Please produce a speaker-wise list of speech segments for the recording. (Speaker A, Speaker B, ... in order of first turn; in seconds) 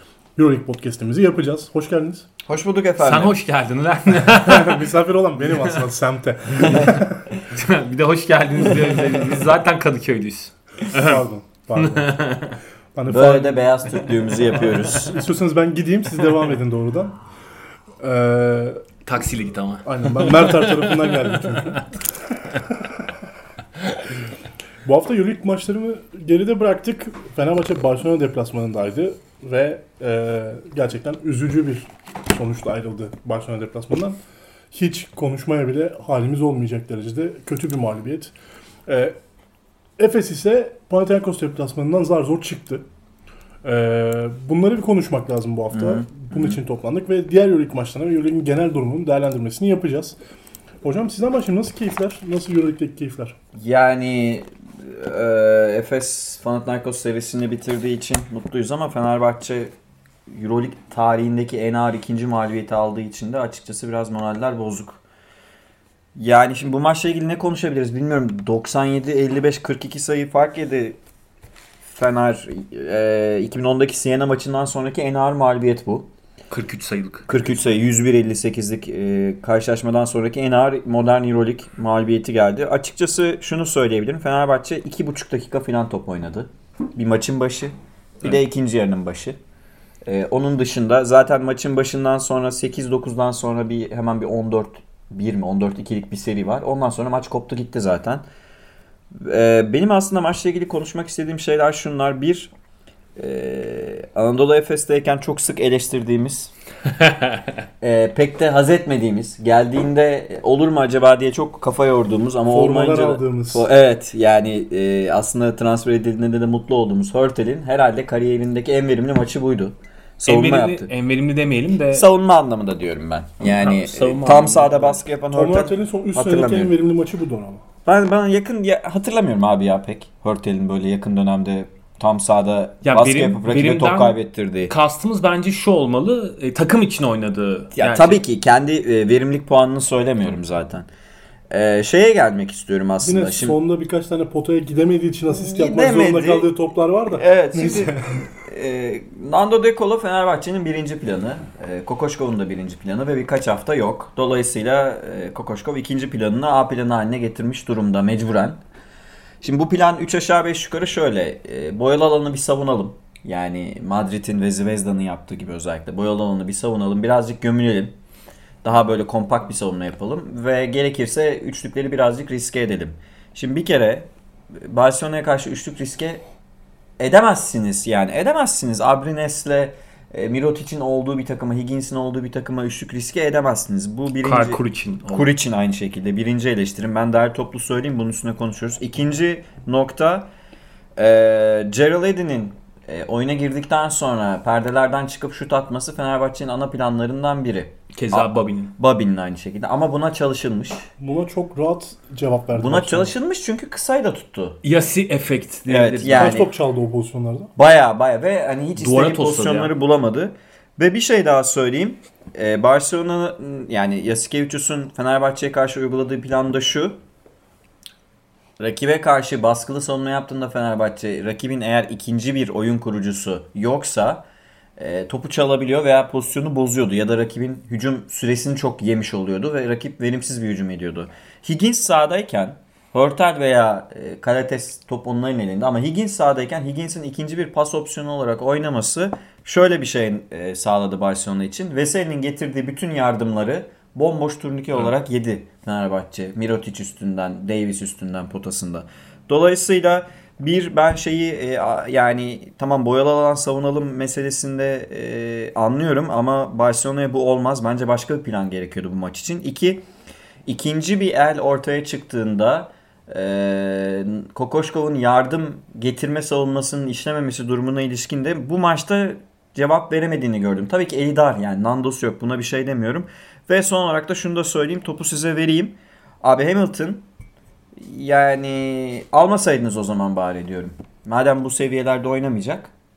Speaker A: 0.4-2.3, 4.3-7.3, 10.9-12.2, 12.9-13.6, 14.8-17.1, 18.0-18.8, 19.8-21.8, 22.7-23.0, 24.8-34.2, 34.7-38.3, 38.9-39.1, 40.0-42.8, 43.6-50.2, 50.8-53.4, 112.5-113.7, 125.3-127.6, 143.0-148.1, 201.0-203.1, 206.1-207.5
Speaker B: 2.5-3.4, 8.8-9.5, 13.1-15.1, 45.7-46.6, 53.5-59.7, 60.3-65.0, 66.2-71.0, 71.8-76.1, 77.3-89.4, 90.0-98.2, 99.2-102.5, 103.2-106.5, 107.8-120.9, 121.9-126.8, 127.8-134.7, 137.7-140.9, 141.5-143.6, 145.3-146.5, 147.1-158.6, 159.4-167.9, 168.6-176.2, 177.0-190.3, 190.9-200.9, 202.5-204.6, 205.7-206.5, 207.6-216.9, 218.6-224.2, 224.8-259.8, 260.4-277.1, 277.8-282.7
Speaker C: 3.0-5.8, 6.6-11.2, 11.8-12.6, 19.0-21.8, 76.5-77.3, 107.0-107.4, 120.2-122.0, 123.5-125.0, 132.8-138.2, 184.2-185.3, 197.9-198.7, 204.6-206.4, 208.8-209.7